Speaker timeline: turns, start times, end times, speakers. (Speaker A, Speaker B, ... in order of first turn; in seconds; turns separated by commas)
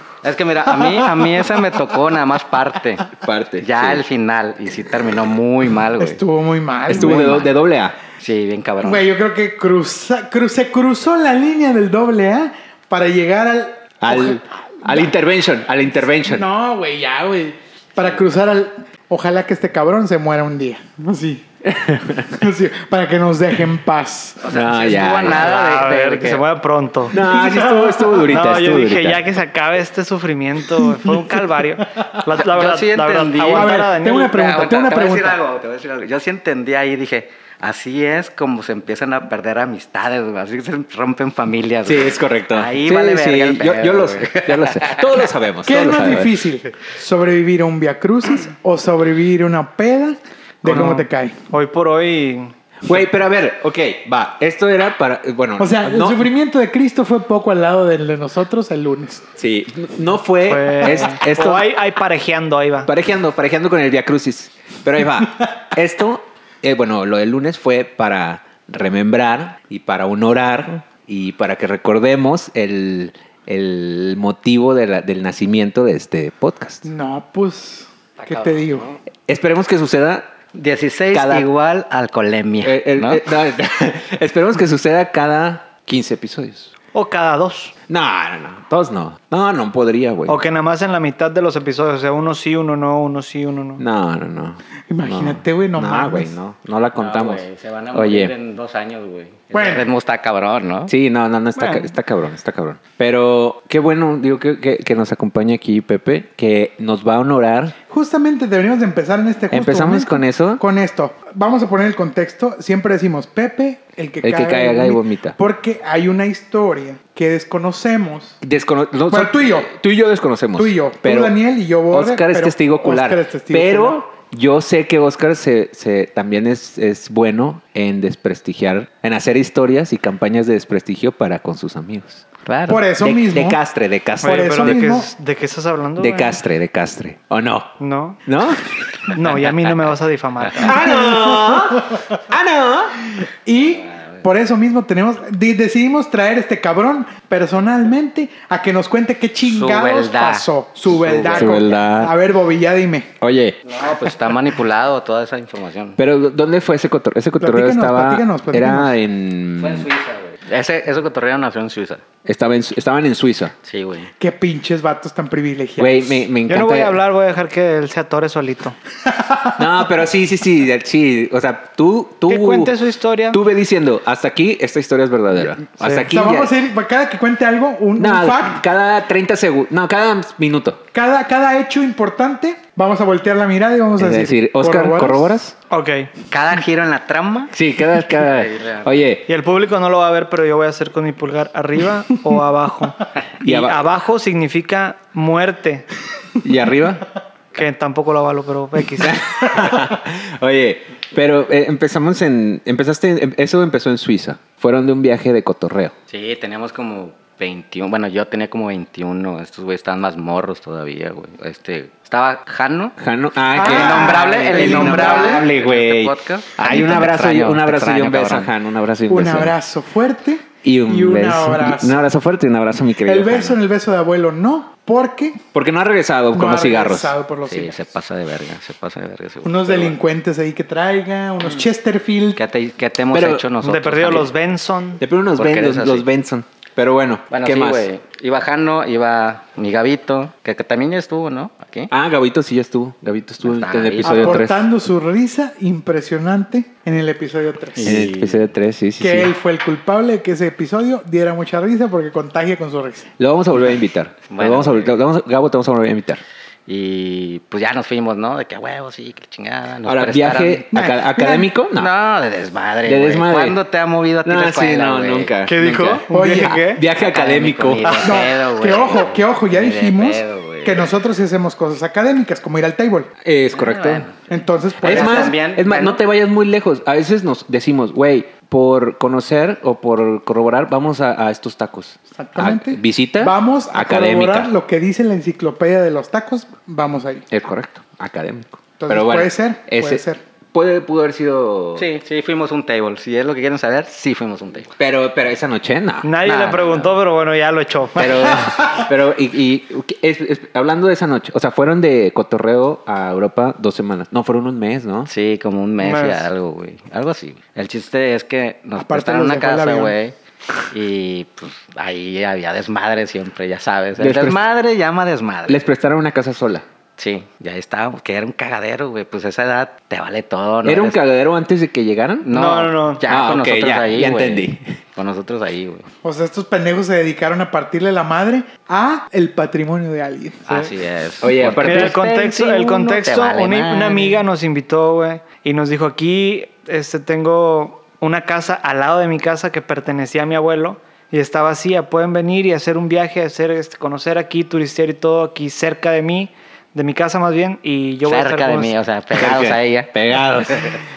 Speaker A: 0.2-3.1, Speaker B: 0.7-2.1, Speaker C: 3.1-4.0, Speaker A: 3.6-6.2, Speaker B: 6.0-7.5, Speaker A: 6.9-7.5, Speaker C: 6.9-7.9, Speaker A: 8.2-9.1, Speaker B: 8.8-15.1, Speaker C: 14.0-16.4, Speaker B: 16.2-21.4, Speaker C: 21.6-22.4, Speaker B: 22.3-24.5, Speaker A: 24.4-26.4, Speaker C: 24.5-25.6, Speaker D: 25.2-27.2, Speaker C: 27.1-29.2, Speaker B: 27.1-28.3, Speaker D: 28.3-34.3, Speaker B: 30.7-32.2, Speaker A: 32.3-45.3, Speaker B: 33.4-35.4, Speaker C: 41.8-46.3, Speaker B: 45.6-51.4, Speaker D: 50.6-52.5, Speaker C: 52.8-56.3, Speaker B: 55.6-59.2, Speaker C: 59.4-61.7, Speaker D: 60.5-62.9, Speaker C: 62.9-76.9, Speaker B: 76.8-78.9, Speaker A: 78.2-79.0, Speaker C: 79.3-80.3, Speaker A: 80.5-83.2, Speaker C: 81.1-81.5, Speaker C: 82.6-86.7, Speaker D: 86.9-87.7, Speaker C: 87.9-90.4, Speaker D: 90.3-93.8, Speaker C: 93.8-98.3, Speaker B: 94.9-96.3, Speaker A: 97.0-100.9, Speaker B: 99.5-99.9, Speaker C: 100.9-107.7, Speaker D: 101.5-101.9, Speaker B: 107.9-118.4, Speaker C: 109.5-110.6, Speaker C: 114.2-115.3, Speaker C: 118.4-121.3, Speaker B: 119.1-119.7, Speaker B: 120.5-124.0, Speaker C: 121.9-132.2, Speaker A: 132.4-132.9, Speaker B: 132.7-133.6, Speaker C: 133.0-134.8, Speaker B: 134.2-135.1, Speaker D: 134.2-136.4, Speaker C: 136.0-137.7, Speaker D: 137.8-138.2, Speaker C: 138.2-138.7, Speaker D: 139.1-140.8, Speaker C: 140.6-143.0, Speaker B: 140.6-142.1, Speaker B: 143.1-153.1, Speaker A: 143.6-144.2, Speaker A: 149.4-151.8, Speaker C: 151.3-152.1, Speaker C: 153.2-153.6, Speaker A: 153.6-156.0, Speaker C: 156.0-159.9, Speaker B: 157.4-158.9, Speaker A: 159.6-162.0, Speaker C: 162.2-163.5, Speaker A: 163.6-164.1, Speaker B: 164.2-166.2, Speaker C: 165.8-167.0, Speaker D: 166.5-168.8, Speaker B: 169.0-169.7, Speaker C: 169.6-172.7, Speaker D: 172.3-173.4, Speaker C: 173.3-176.5, Speaker A: 175.7-176.4, Speaker B: 176.1-178.6, Speaker C: 178.0-180.8, Speaker B: 180.9-185.3, Speaker C: 184.0-185.5, Speaker D: 185.7-186.1, Speaker A: 186.3-187.5, Speaker C: 187.5-189.2, Speaker A: 188.2-189.1, Speaker D: 189.3-195.9, Speaker C: 193.4-193.8, Speaker C: 196.4-197.0, Speaker D: 197.5-199.2, Speaker C: 199.0-205.9, Speaker A: 206.1-212.9, Speaker C: 213.0-219.5, Speaker B: 213.5-215.5, Speaker A: 213.5-218.5, Speaker B: 219.1-222.0, Speaker C: 220.6-223.6, Speaker B: 223.0-225.4, Speaker C: 225.5-227.1, Speaker B: 226.3-227.7, Speaker A: 227.5-230.0, Speaker B: 229.4-232.4, Speaker A: 232.3-234.3, Speaker C: 233.1-233.4, Speaker D: 233.6-235.0, Speaker C: 235.0-237.9, Speaker A: 235.4-236.1, Speaker A: 237.3-241.9, Speaker C: 241.9-244.6, Speaker A: 243.4-244.4, Speaker B: 244.0-248.1, Speaker A: 247.7-248.4, Speaker C: 247.8-249.3, Speaker B: 249.0-253.1, Speaker C: 253.2-256.2, Speaker A: 254.3-255.0, Speaker A: 256.7-260.6, Speaker C: 259.8-261.9, Speaker B: 260.7-261.5, Speaker A: 261.7-265.3, Speaker C: 262.8-263.6, Speaker C: 264.2-267.9, Speaker D: 265.5-266.8, Speaker B: 266.1-266.7, Speaker A: 266.9-270.9, Speaker D: 267.8-268.1, Speaker B: 268.0-273.1, Speaker C: 273.2-274.1, Speaker A: 273.5-276.0, Speaker B: 274.3-275.4, Speaker C: 274.8-284.5, Speaker B: 282.1-287.2, Speaker C: 287.3-291.9, Speaker B: 288.8-290.2, Speaker A: 291.8-294.7, Speaker C: 294.8-296.1, Speaker D: 296.0-298.3, Speaker A: 296.2-296.9, Speaker C: 297.9-305.1, Speaker A: 305.1-310.1, Speaker D: 305.8-306.3, Speaker B: 308.8-309.9, Speaker A: 310.7-315.6, Speaker C: 314.0-314.4, Speaker C: 315.5-316.6, Speaker A: 317.0-321.0, Speaker C: 320.6-322.3, Speaker A: 322.2-325.9, Speaker D: 322.3-323.0, Speaker C: 323.1-324.8, Speaker B: 326.0-330.4, Speaker A: 330.4-334.2, Speaker C: 331.2-332.0, Speaker D: 331.6-348.7, Speaker A: 348.1-350.8, Speaker C: 349.1-350.8